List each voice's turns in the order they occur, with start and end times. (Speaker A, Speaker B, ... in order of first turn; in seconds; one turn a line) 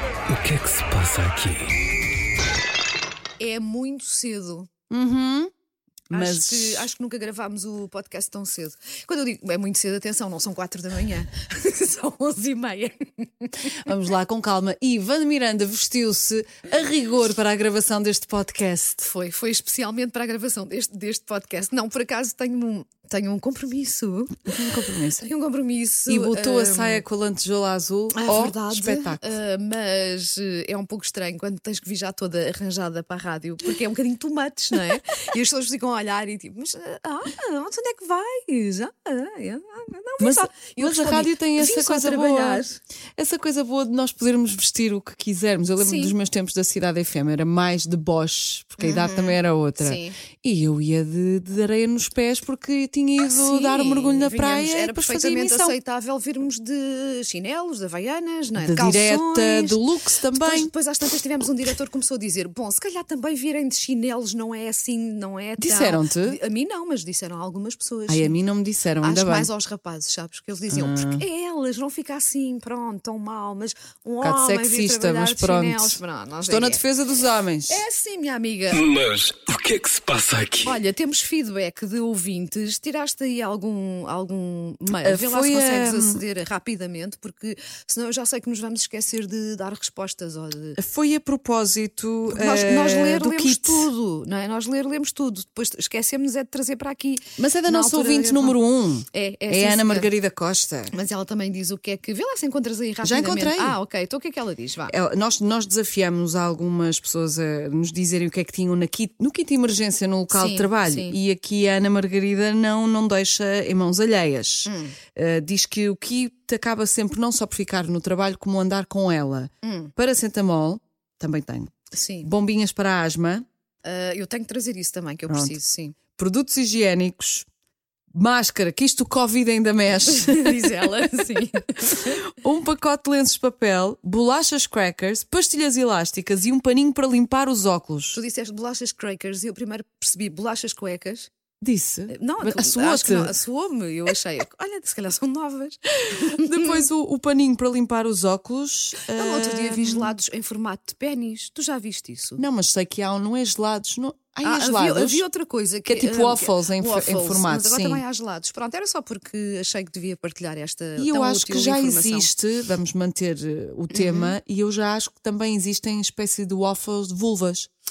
Speaker A: 0.3-1.7
Speaker B: 3.4-4.7
Speaker C: 4.9-5.5
Speaker C: 6.1-6.9
Speaker B: 6.1-13.8
Speaker C: 13.7-19.1
Speaker B: 19.0-24.5
Speaker C: 24.5-25.3
Speaker B: 25.2-27.1
Speaker C: 26.1-29.2
Speaker B: 28.1-42.8
Speaker C: 40.2-42.6
Speaker C: 43.2-55.8
Speaker B: 45.8-46.2
Speaker B: 48.8-50.2
Speaker B: 53.2-59.8
Speaker C: 58.6-60.7
Speaker B: 60.3-68.4
Speaker C: 65.6-66.4
Speaker C: 68.1-69.5
Speaker B: 69.0-76.8
Speaker C: 70.7-71.2
Speaker C: 74.2-77.8
Speaker B: 77.7-78.9
Speaker A: 78.7-80.8
Speaker B: 80.6-90.8
Speaker C: 84.9-86.2
Speaker C: 90.8-93.9
Speaker B: 92.3-98.6
Speaker C: 97.4-100.9
Speaker B: 99.1-100.1
Speaker B: 100.9-104.9
Speaker C: 103.0-103.8
Speaker C: 104.9-123.5
Speaker B: 110.3-111.2
Speaker B: 114.7-115.0
Speaker B: 119.6-119.9
Speaker B: 121.9-122.3
Speaker B: 123.8-126.0
Speaker C: 125.3-125.6
Speaker C: 126.2-127.5
Speaker C: 128.1-130.8
Speaker B: 130.1-132.2
Speaker C: 132.1-138.2
Speaker B: 138.1-141.3
Speaker C: 141.6-143.3
Speaker B: 142.1-146.8
Speaker C: 146.1-150.1
Speaker B: 149.1-152.4
Speaker C: 152.4-155.2
Speaker B: 154.4-162.3
Speaker C: 155.9-158.0
Speaker C: 161.0-167.7
Speaker B: 163.9-164.4